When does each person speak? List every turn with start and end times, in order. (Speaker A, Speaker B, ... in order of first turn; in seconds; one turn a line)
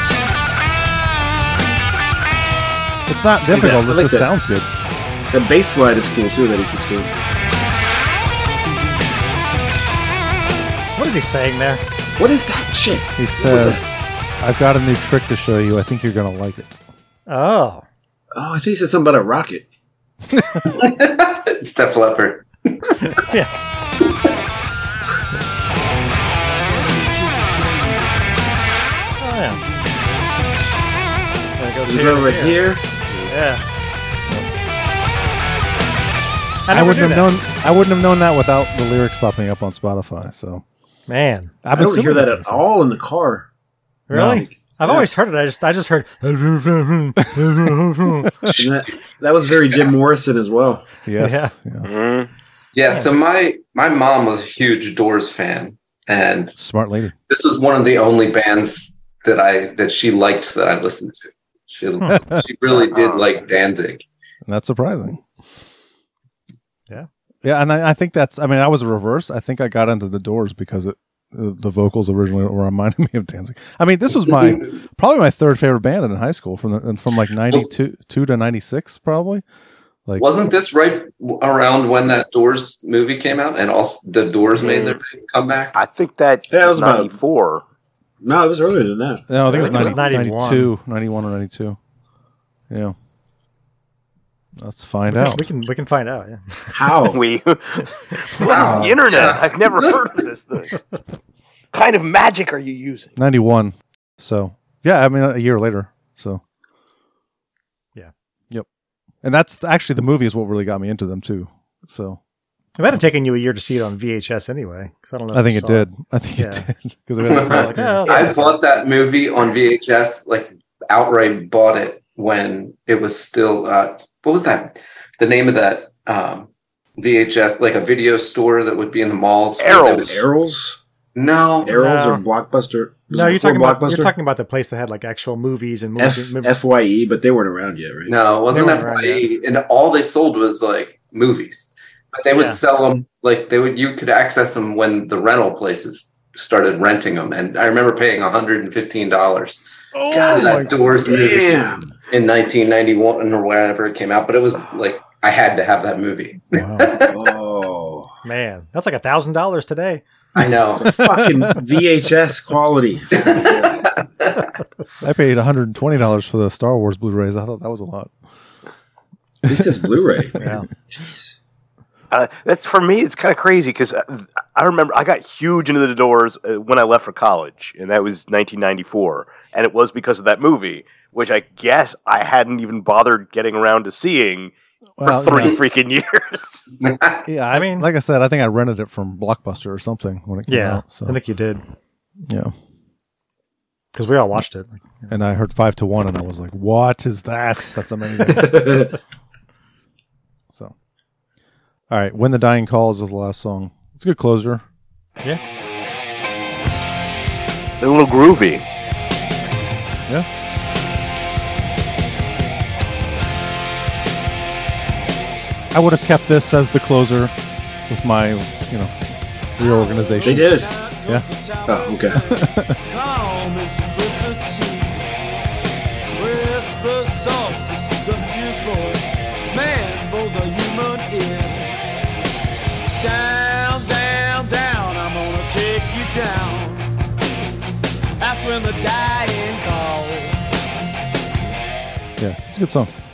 Speaker A: 3.1-4.7
Speaker B: 3.5-4.3
Speaker B: 5.3-7.2
Speaker C: 8.5-9.6
Speaker D: 10.9-11.8
Speaker B: 12.2-13.9
Speaker A: 13.2-13.9
Speaker A: 14.4-16.8
Speaker D: 17.3-17.8
Speaker B: 18.3-19.6
Speaker A: 20.4-20.6
Speaker E: 20.7-22.9
Speaker D: 23.1-23.5
Speaker C: 26.5-28.3
Speaker D: 29.2-29.6
Speaker C: 29.5-30.5
Speaker D: 31.6-32.6
Speaker B: 31.8-32.8
Speaker D: 33.3-33.6
Speaker D: 36.7-37.3
Speaker A: 36.7-40.6
Speaker D: 41.1-41.6
Speaker A: 41.6-42.7
Speaker B: 41.7-43.5
Speaker D: 44.1-48.3
Speaker A: 44.1-44.5
Speaker B: 44.2-45.0
Speaker A: 48.2-48.5
Speaker B: 48.5-50.9
Speaker A: 51.0-51.9
Speaker D: 51.1-51.5
Speaker F: 51.8-52.3
Speaker E: 52.7-56.5
Speaker A: 56.6-57.1
Speaker E: 57.3-64.0
Speaker A: 62.1-62.4
Speaker F: 62.9-63.3
Speaker A: 64.4-65.2
Speaker A: 67.4-79.4
Speaker E: 80.2-85.7
Speaker F: 84.6-85.0
Speaker F: 85.7-87.6
Speaker B: 86.5-87.1
Speaker B: 88.2-89.9
Speaker A: 89.3-91.8
Speaker D: 89.5-90.7
Speaker A: 92.7-92.9
Speaker A: 94.6-95.4
Speaker D: 95.1-96.9
Speaker B: 96.7-97.2
Speaker F: 97.1-100.8
Speaker D: 98.4-98.7
Speaker E: 98.4-100.0
Speaker A: 98.6-99.0
Speaker F: 101.7-103.1
Speaker A: 103.2-106.4
Speaker A: 109.2-112.2
Speaker D: 112.8-116.7
Speaker A: 115.3-118.4
Speaker E: 117.2-130.2
Speaker D: 117.2-118.6
Speaker F: 129.6-130.2
Speaker B: 129.8-130.8
Speaker E: 131.2-131.7
Speaker B: 131.6-134.1
Speaker D: 131.7-132.2
Speaker D: 133.1-136.5
Speaker B: 136.0-138.2
Speaker E: 138.1-149.6
Speaker D: 138.5-139.2
Speaker D: 142.3-142.6
Speaker B: 150.1-151.9
Speaker A: 150.2-150.6
Speaker E: 150.3-157.1
Speaker A: 156.5-156.9
Speaker B: 157.1-158.1
Speaker D: 158.2-160.0
Speaker E: 160.3-160.9
Speaker B: 160.8-163.9
Speaker A: 160.8-161.6
Speaker E: 163.1-164.4
Speaker A: 165.0-168.1
Speaker B: 169.4-171.3
Speaker A: 169.5-169.8
Speaker D: 170.4-170.7
Speaker F: 172.1-186.7
Speaker A: 185.0-185.6
Speaker E: 186.8-187.2
Speaker A: 187.3-191.2
Speaker D: 187.5-187.9
Speaker D: 190.5-191.6
Speaker A: 192.3-192.5
Speaker D: 193.9-195.1
Speaker A: 195.1-198.7
Speaker B: 198.2-198.9
Speaker A: 201.9-204.6
Speaker F: 207.8-208.6
Speaker A: 215.7-217.3
Speaker A: 217.9-218.9
Speaker A: 219.6-221.2
Speaker C: 219.6-225.0
Speaker B: 220.2-220.7
Speaker B: 221.7-222.2
Speaker A: 222.2-222.8
Speaker C: 226.1-231.8
Speaker C: 233.0-236.8
Speaker C: 238.2-240.4
Speaker A: 242.2-242.9